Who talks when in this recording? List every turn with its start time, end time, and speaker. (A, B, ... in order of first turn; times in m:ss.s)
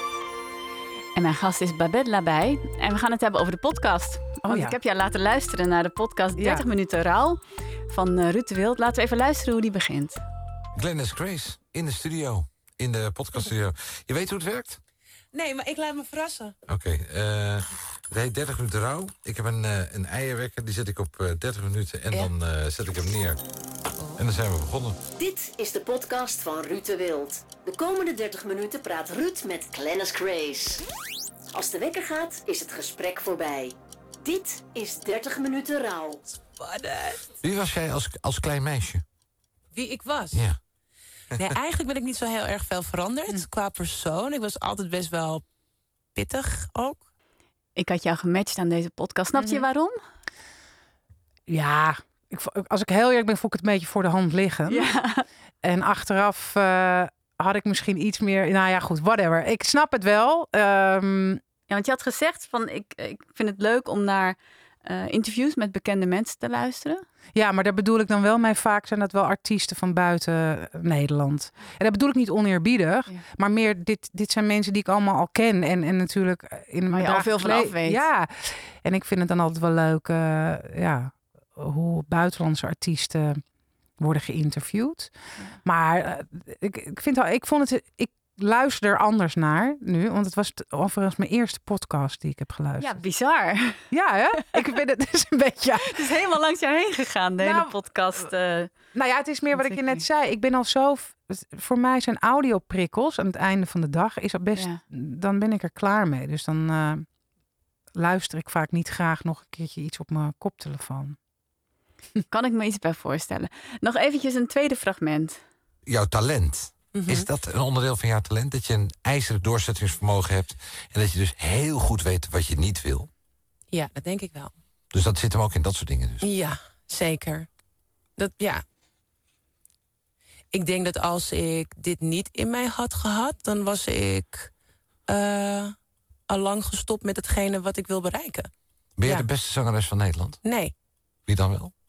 0:01.2-0:10.2 A
0:04.5-0:04.8 B
0:06.4-0:06.7 B
0:10.8-0:14.8 C
0:15.3-0:16.6 D
0:16.7-0:23.4 C
0:24.2-0:25.0 C
0:25.2-0:30.8 E
0:31.5-0:36.2 E
0:36.6-0:37.4 D
0:37.4-0:39.0 C
0:39.7-0:40.4 D
0:40.3-0:40.6 C
0:41.4-0:45.4 D
0:46.2-0:47.0 D
0:47.8-0:50.0 A
0:49.4-0:49.7 B
0:51.5-0:54.9 B
0:54.7-0:55.3 A
0:55.6-1:01.4 B
1:01.7-1:07.1 A
1:07.4-1:23.4 B
1:16.9-1:18.0 A
1:24.0-1:25.1 B
1:25.6-1:33.0 B
1:32.8-1:33.9 A
1:33.9-1:36.2 B
1:35.8-1:38.7 A
1:37.4-1:38.3 B
1:38.9-1:47.0 B
1:39.6-1:40.0 A
1:44.6-1:44.8 A
1:48.0-1:51.2 B
1:52.3-1:55.4 A
1:55.9-2:03.1 C
1:56.9-1:57.3 D
2:03.7-2:04.5 D
2:04.9-2:06.3 C
2:06.2-2:07.5 D
2:08.2-2:08.6 D
2:10.5-2:14.5 D
2:15.1-2:15.8 D
2:16.3-2:18.5 D
2:19.0-2:20.4 C
2:20.4-2:20.7 D
2:21.3-2:21.7 C